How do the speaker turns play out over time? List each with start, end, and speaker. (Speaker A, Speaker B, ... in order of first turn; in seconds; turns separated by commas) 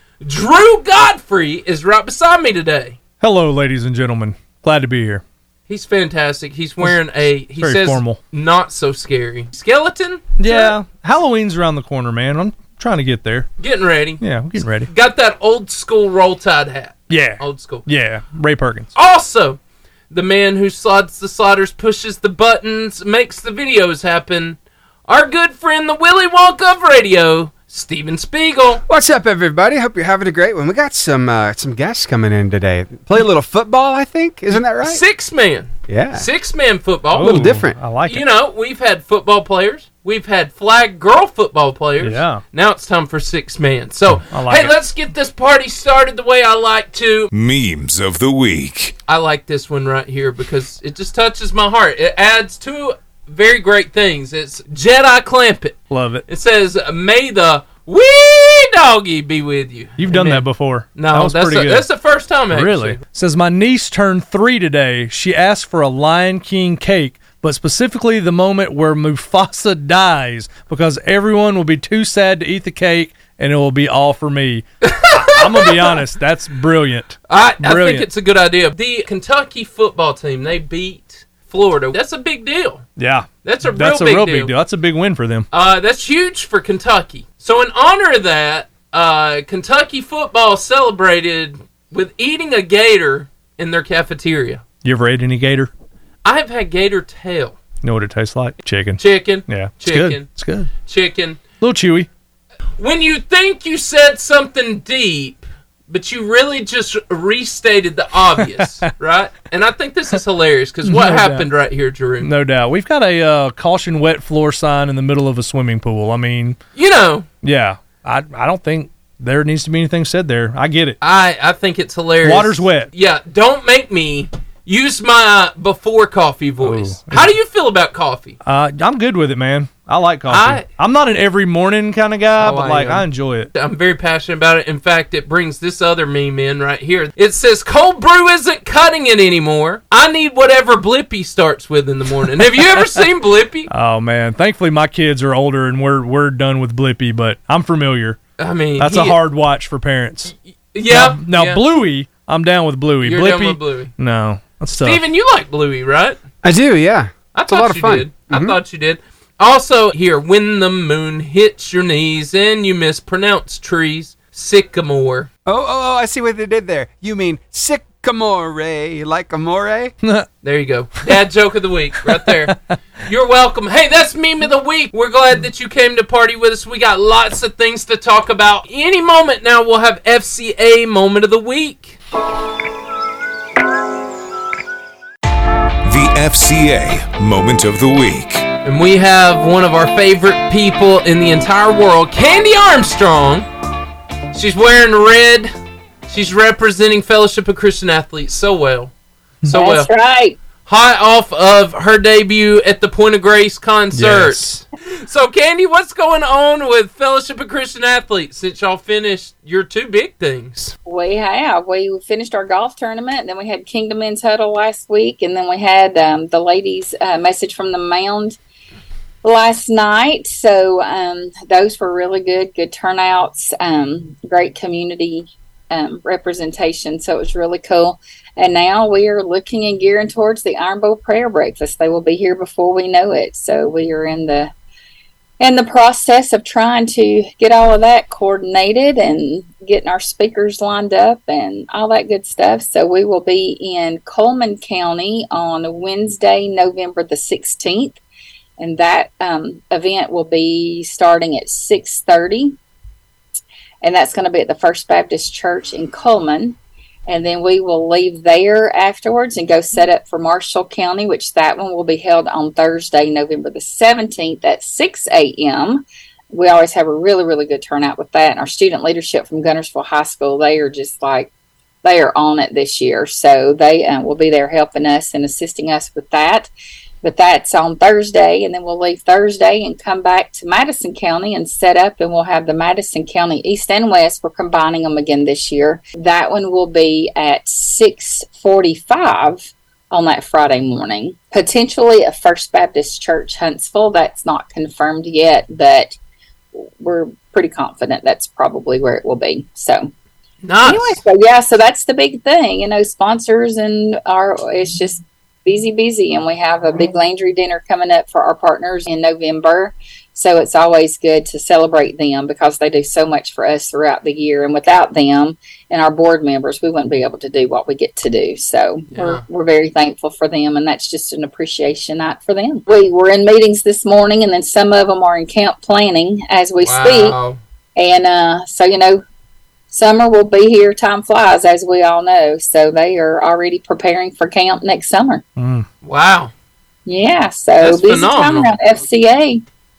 Speaker A: 0.2-3.0, Speaker B: 3.2-5.2, Speaker A: 5.7-10.8, Speaker B: 7.6-8.2, Speaker B: 10.4-13.5, Speaker A: 13.6-14.2, Speaker B: 14.2-14.9, Speaker A: 14.9-17.9, Speaker B: 17.1-18.9, Speaker A: 18.9-19.6, Speaker A: 20.1-28.8, Speaker C: 28.9-35.0, Speaker A: 34.7-47.3, Speaker C: 35.9-36.3, Speaker B: 37.1-38.2, Speaker C: 37.2-37.8, Speaker B: 42.0-42.4, Speaker B: 44.3-44.8, Speaker D: 47.3-49.0, Speaker A: 49.1-63.0, Speaker B: 55.9-56.2, Speaker B: 60.0-61.9, Speaker B: 62.5-78.1, Speaker A: 74.8-76.0, Speaker A: 77.3-82.8, Speaker B: 83.0-85.5, Speaker A: 83.4-84.5, Speaker A: 85.5-94.6, Speaker B: 94.8-95.7, Speaker A: 96.2-97.6, Speaker B: 97.8-100.7, Speaker A: 99.0-100.3, Speaker A: 100.9-101.4, Speaker B: 101.6-102.1, Speaker A: 102.8-112.3, Speaker B: 108.6-108.9, Speaker B: 110.8-111.5, Speaker B: 112.2-116.6, Speaker A: 116.8-117.3, Speaker B: 117.4-121.0, Speaker A: 121.0-128.4, Speaker B: 122.2-122.9, Speaker B: 126.6-127.3, Speaker B: 128.4-133.5, Speaker A: 130.3-130.7, Speaker A: 132.4-143.7, Speaker B: 143.7-148.2, Speaker A: 148.4-149.2, Speaker B: 148.8-150.3, Speaker A: 150.7-151.6, Speaker B: 150.9-155.0, Speaker A: 153.0-153.9, Speaker A: 154.8-156.2, Speaker C: 156.4-158.6, Speaker A: 157.3-165.3, Speaker C: 165.5-169.9, Speaker A: 170.4-182.0, Speaker D: 185.8-188.5, Speaker A: 188.6-193.5, Speaker A: 194.3-195.5, Speaker A: 196.1-198.9, Speaker A: 199.4-199.9, Speaker E: 199.5-200.4, Speaker A: 200.7-204.4, Speaker B: 203.9-204.6, Speaker A: 205.0-210.7, Speaker E: 210.9-218.4, Speaker E: 219.2-234.5, Speaker E: 235.4-248.0, Speaker E: 248.6-252.6, Speaker E: 253.8-271.3, Speaker E: 271.8-276.5, Speaker E: 277.0-289.4, Speaker E: 289.9-296.0, Speaker E: 296.6-299.9, Speaker A: 300.4-301.0, Speaker E: 300.6-327.2, Speaker A: 318.9-319.2, Speaker A: 326.6-327.4, Speaker E: 327.8-329.0, Speaker E: 329.7-335.2, Speaker B: 335.4-335.7, Speaker A: 335.8-336.3, Speaker E: 336.9-339.4, Speaker A: 337.6-338.5